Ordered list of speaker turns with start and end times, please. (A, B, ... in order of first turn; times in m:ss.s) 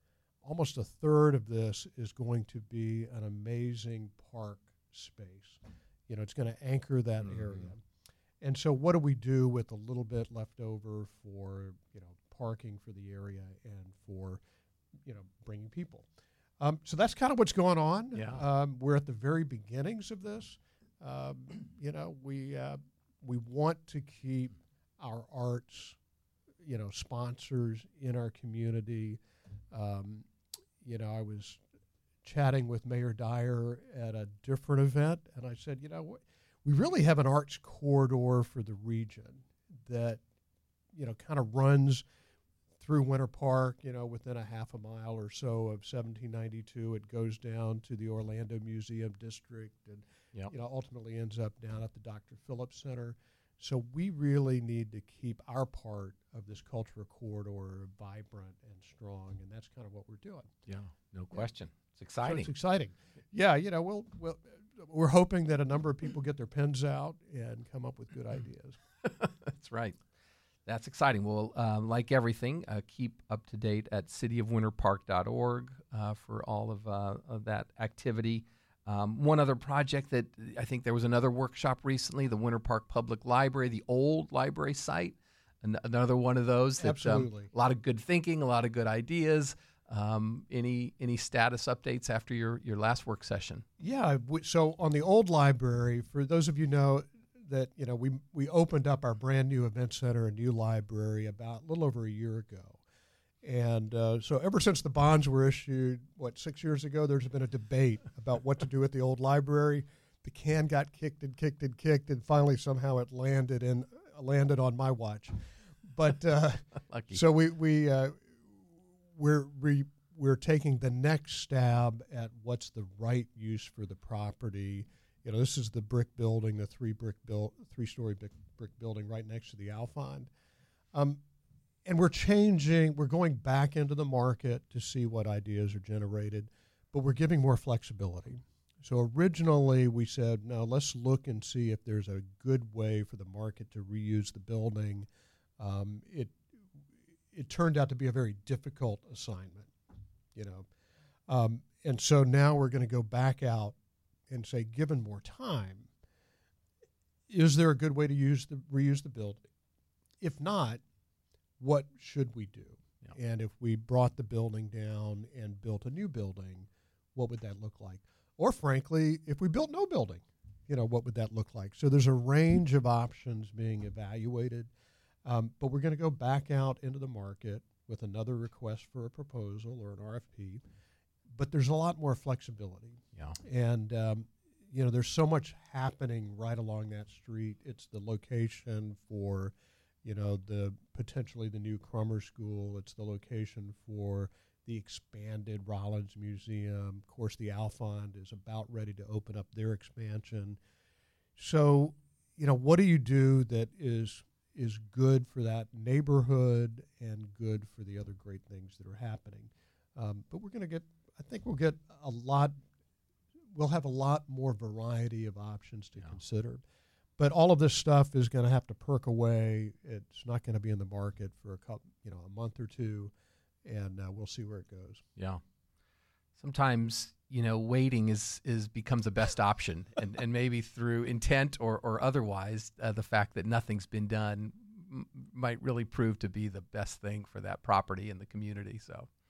0:00.4-0:07.8 A
0:07.2-0:07.6 B
0:08.4-0:14.4 A
0:15.0-0:16.1 A
0:16.6-0:26.0 A
0:18.1-0:18.4 B
0:26.6-0:29.2 A
0:29.7-0:30.3 A
0:30.8-0:31.6 A
0:32.2-0:40.2 A
0:40.9-0:42.0 A
0:42.8-1:00.5 A
1:00.6-1:02.5 B
1:02.2-1:08.8 A
1:09.0-1:10.0 B
1:10.6-1:33.6 B
1:26.8-1:27.5 A
1:33.8-1:42.8 A
1:43.4-2:10.3 A
1:56.9-1:57.2 B
2:10.9-2:11.2 A
2:11.8-2:25.1 A
2:25.6-2:26.4 A
2:27.3-2:29.7 A
2:30.3-2:30.7 A
2:31.3-2:33.7 A
2:34.3-2:35.9 A
2:37.3-2:39.4 A
2:40.2-2:40.8 A
2:41.6-2:54.7 A
2:55.2-3:00.6 A
3:01.3-3:20.6 A
3:21.4-3:32.5 A
3:33.5-3:36.6 A
3:37.2-3:43.1 A
3:43.6-3:45.0 A
3:45.2-3:45.4 B
3:46.4-3:59.1 B